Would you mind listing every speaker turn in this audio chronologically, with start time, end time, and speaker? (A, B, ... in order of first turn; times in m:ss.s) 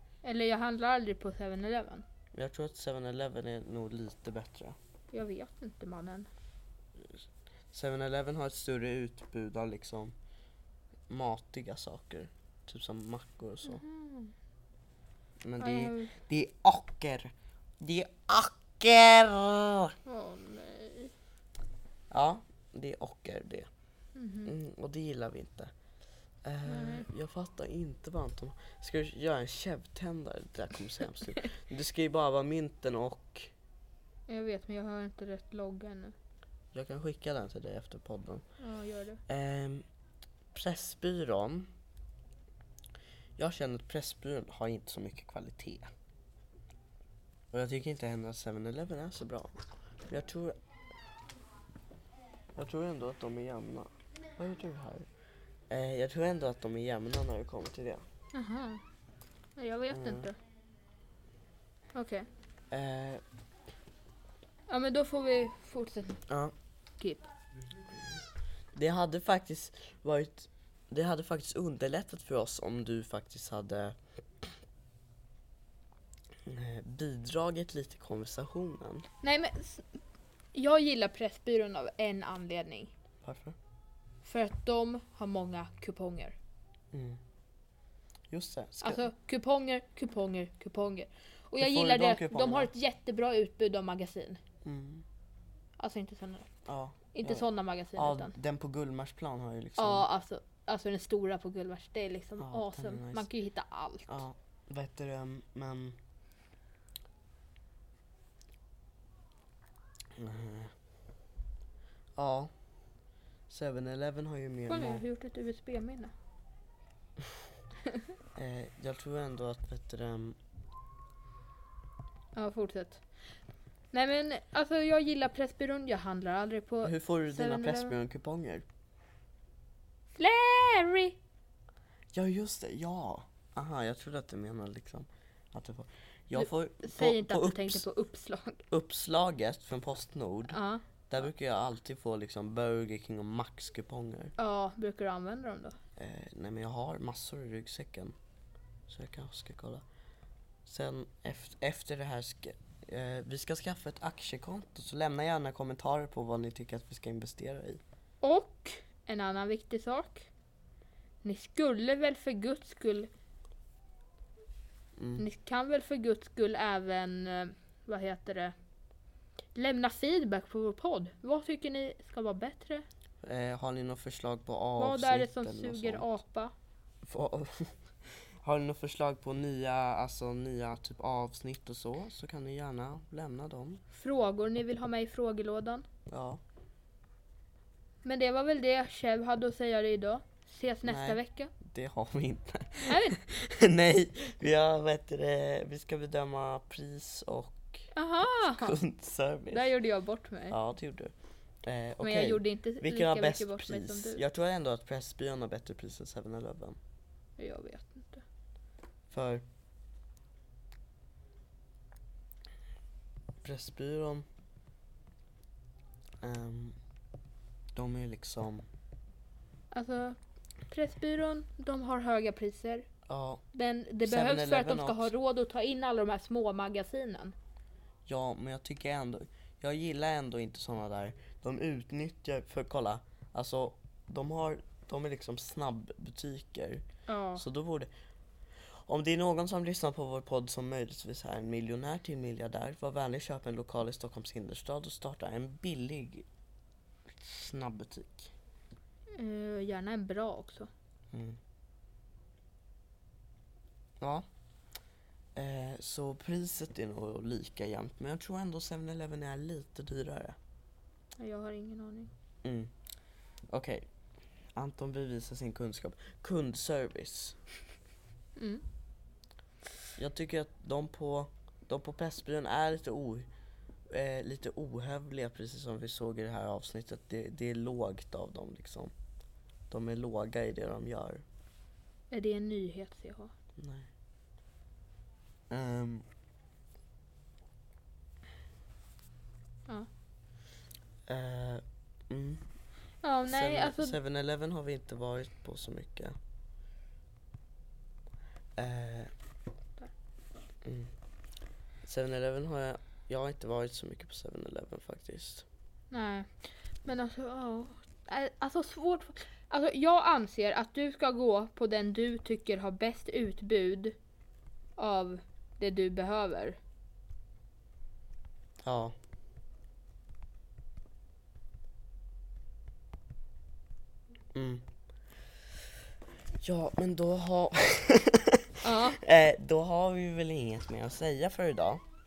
0:00.2-0:02.0 A
0:02.3-0:04.8 B
0:05.1-0:06.3 A
0:07.7-0:10.1 B
0:11.1-0:13.8 B
0:13.6-0:14.3 A
0:15.4-0:20.0 B
0:15.6-0:16.1 A
0:20.0-0:21.1 A
0:22.1-0:23.7 B
0:24.2-0:24.5 A
0:24.4-0:25.7 B
0:26.4-0:33.5 B
0:26.6-0:27.0 A
0:34.3-0:36.1 A
0:36.7-0:38.4 B
0:38.6-0:39.2 A
0:39.3-0:39.8 B
0:40.5-0:41.7 B
0:43.4-0:45.9 B
0:47.5-0:49.5 B
0:50.1-0:50.6 B
0:52.6-0:55.1 B
0:55.7-0:58.0 B
0:58.3-0:58.8 A
0:59.6-1:00.4 A
0:59.9-1:00.3 B
1:01.9-1:02.3 A
1:02.7-1:03.2 B
1:04.7-1:06.2 A
1:06.3-1:06.5 B
1:07.0-1:07.2 A
1:08.7-1:14.5 B
1:16.4-1:19.1 B
1:19.2-1:19.9 A
1:20.5-1:22.9 A
1:23.2-1:23.6 B
1:24.2-1:26.4 A
1:26.9-1:27.2 B
1:28.3-1:29.1 B
1:28.8-1:34.4 A
1:31.6-1:32.7 B
1:34.6-1:35.0 B
1:35.8-1:36.5 A
1:36.6-1:40.0 B
1:37.1-1:38.3 A
1:39.8-1:44.2 A
1:42.4-1:43.3 B
1:44.1-1:46.0 B
1:50.2-1:50.7 B
1:52.2-1:52.5 B
1:53.5-1:55.0 B
1:54.7-1:56.1 A
1:58.3-2:00.4 B
2:02.4-2:03.0 A
2:03.9-2:07.9 A
2:06.8-2:08.6 B
2:10.2-2:11.2 A
2:12.1-2:17.8 B
2:16.4-2:18.6 A
2:18.7-2:20.6 B
2:20.5-2:20.8 A
2:21.1-2:24.3 B
2:24.4-2:25.8 A
2:26.0-2:28.1 B
2:28.9-2:29.8 B
2:30.6-2:37.8 B
2:38.2-2:40.3 A
2:41.2-2:43.1 A
2:45.0-2:45.2 B
2:45.2-2:48.5 A
2:49.5-2:52.8 A
2:53.2-2:56.1 B
2:54.8-2:56.5 A
2:57.0-2:57.7 B
2:58.4-3:03.8 B
3:03.9-3:05.8 A
3:06.1-3:06.4 B
3:08.0-3:11.5 A
3:10.8-3:17.9 B
3:12.9-3:13.2 A
3:17.9-3:18.8 A
3:18.4-3:19.7 B
3:19.5-3:20.6 A
3:20.5-3:26.8 B
3:22.0-3:24.2 A
3:27.4-3:28.2 A
3:29.1-3:29.4 B
3:33.4-3:34.2 B
3:36.2-3:36.8 B
3:37.7-3:38.6 B
3:39.7-3:40.2 A
3:40.7-3:42.9 A
3:43.1-3:43.4 B
3:43.5-3:47.3 A
3:44.0-3:45.1 B
3:48.0-3:56.8 B
3:57.1-3:57.4 A
3:57.3-3:57.9 B
3:58.9-4:06.2 B
4:07.1-4:08.3 B
4:09.1-4:10.7 A
4:11.1-4:11.4 B
4:14.0-4:14.2 B
4:15.4-4:20.4 B
4:21.2-4:22.1 A
4:22.4-4:22.7 B
4:23.5-4:23.8 B
4:24.6-4:27.4 B
4:28.4-4:28.6 A
4:30.0-4:33.3 B
4:33.9-4:38.9 B
4:39.7-4:41.2 B
4:42.1-4:43.3 A
4:43.6-4:43.9 B
4:45.5-4:46.0 B
4:51.0-4:52.4 B
4:53.0-4:54.0 A
4:53.3-4:56.2 B
4:58.6-4:59.1 B
5:00.6-5:00.9 B
5:01.8-5:05.4 B
5:05.9-5:14.0 A
5:14.8-5:16.6 A
5:18.6-5:18.9 B
5:24.3-5:24.6 B
5:26.4-5:31.8 B
5:28.6-5:29.0 A